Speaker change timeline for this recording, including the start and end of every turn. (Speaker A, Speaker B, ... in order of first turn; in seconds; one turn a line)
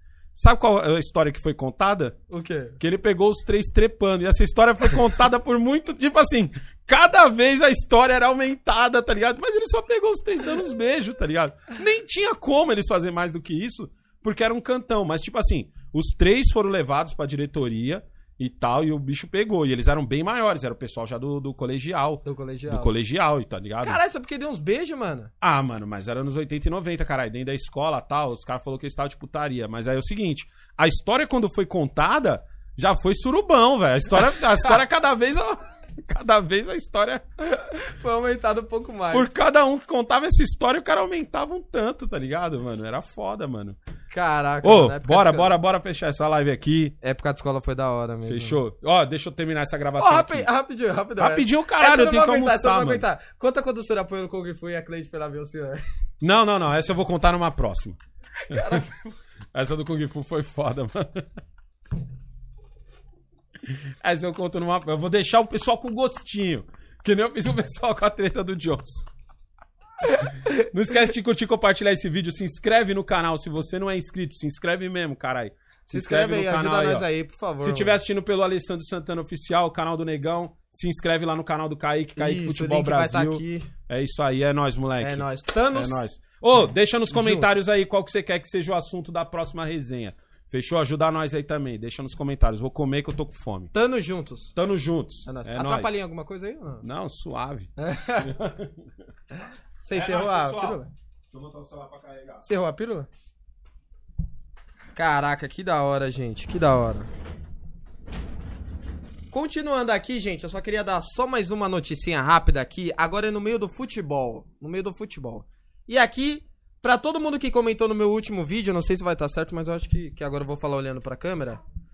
Speaker A: 0.3-2.2
Speaker B: 2.3-2.8
Speaker A: 2.8-24.0
Speaker B: 22.2-22.9
Speaker B: 23.8-25.3
Speaker A: 25.4-37.2
Speaker B: 37.4-39.3
Speaker A: 39.1-43.8
Speaker B: 44.1-45.5
Speaker A: 44.6-46.9
Speaker B: 47.0-48.6
Speaker A: 48.3-50.5
Speaker B: 50.0-55.8
Speaker A: 51.2-53.0
Speaker A: 56.2-58.0
Speaker B: 58.5-59.1
Speaker A: 58.5-58.8
Speaker A: 59.5-61.2
Speaker A: 63.6-69.1
Speaker A: 70.5-77.0
Speaker B: 75.9-78.0
Speaker A: 77.6-93.7
Speaker B: 82.2-83.7
Speaker B: 85.0-86.0
Speaker B: 87.1-87.5
Speaker B: 93.7-94.5
Speaker A: 94.5-96.0
Speaker B: 95.2-96.8
Speaker A: 96.8-98.8
Speaker B: 97.8-98.3
Speaker B: 99.8-100.9
Speaker A: 99.9-100.8
Speaker A: 101.3-102.5
Speaker B: 102.4-103.1
Speaker B: 104.9-107.1
Speaker B: 109.3-121.6